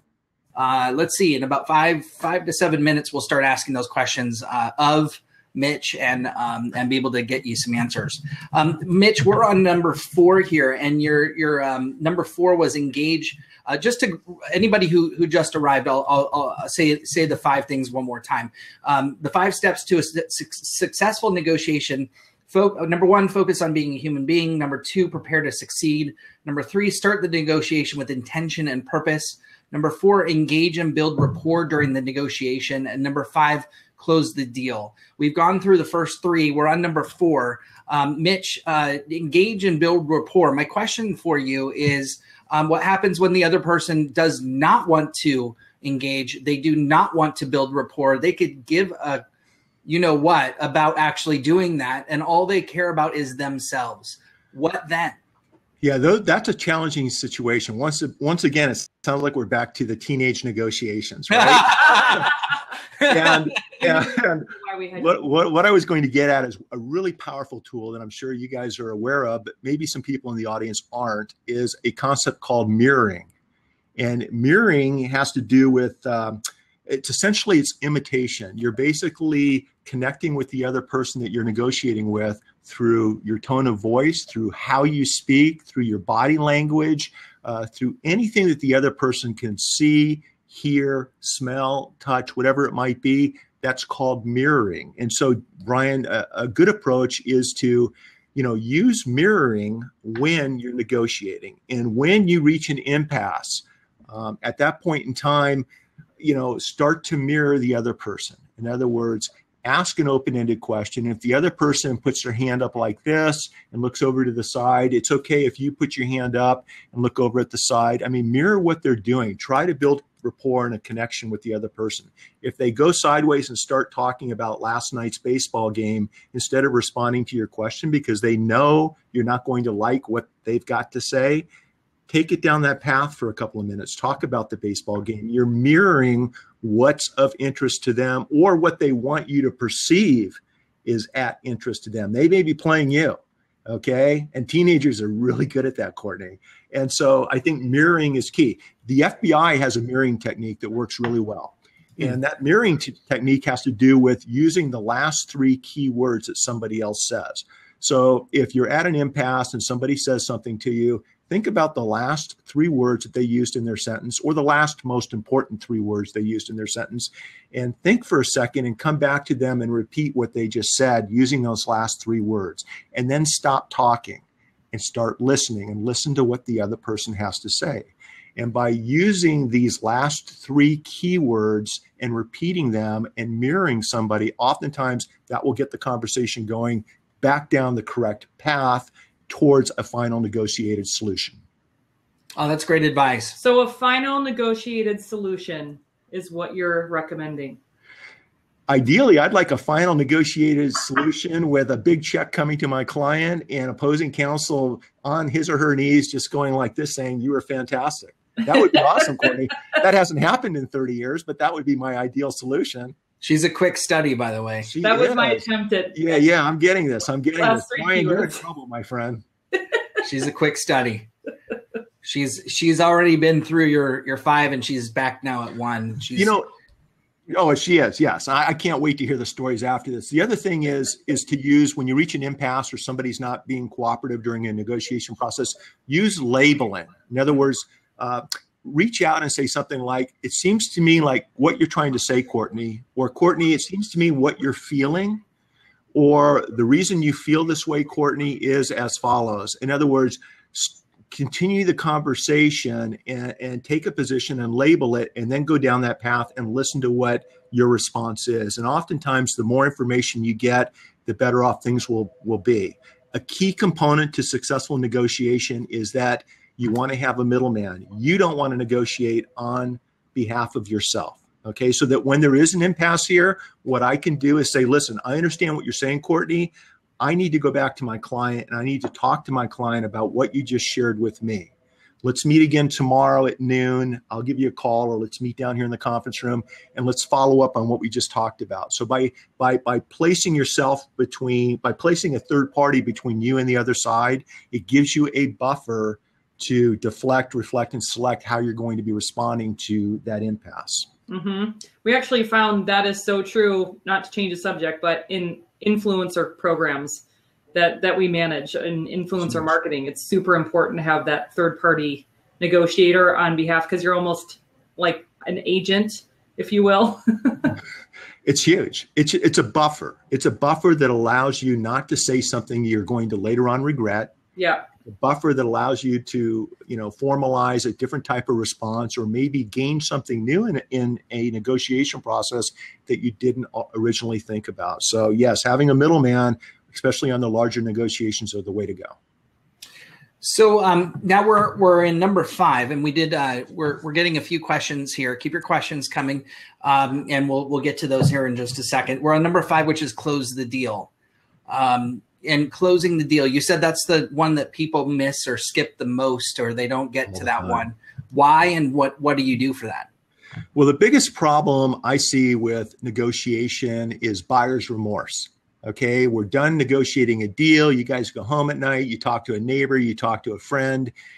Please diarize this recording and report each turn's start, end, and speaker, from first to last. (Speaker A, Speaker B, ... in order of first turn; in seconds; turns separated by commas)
Speaker A: 0.6-49.2, Speaker A: 49.9-55.2, Speaker B: 55.8-62.3, Speaker A: 61.3-62.3, Speaker B: 63.1-73.3, Speaker C: 63.8-65.1, Speaker B: 74.0-105.7, Speaker B: 106.2-131.5, Speaker B: 132.1-191.4, Speaker A: 192.4-193.4, Speaker C: 193.4-197.6, Speaker B: 198.7-213.0, Speaker A: 213.2-214.7, Speaker B: 214.6-219.2, Speaker C: 214.8-216.0, Speaker C: 217.4-218.4, Speaker A: 220.0-221.1, Speaker A: 222.0-226.4, Speaker B: 226.2-226.5, Speaker B: 227.3-245.2, Speaker B: 245.9-281.5, Speaker B: 282.0-300.9, Speaker C: 301.1-307.0, Speaker C: 307.5-317.6, Speaker B: 318.2-324.1, Speaker C: 324.4-324.7, Speaker B: 324.9-339.0, Speaker A: 340.2-350.9, Speaker A: 351.5-359.9, Speaker B: 357.1-357.6, Speaker B: 360.6-370.9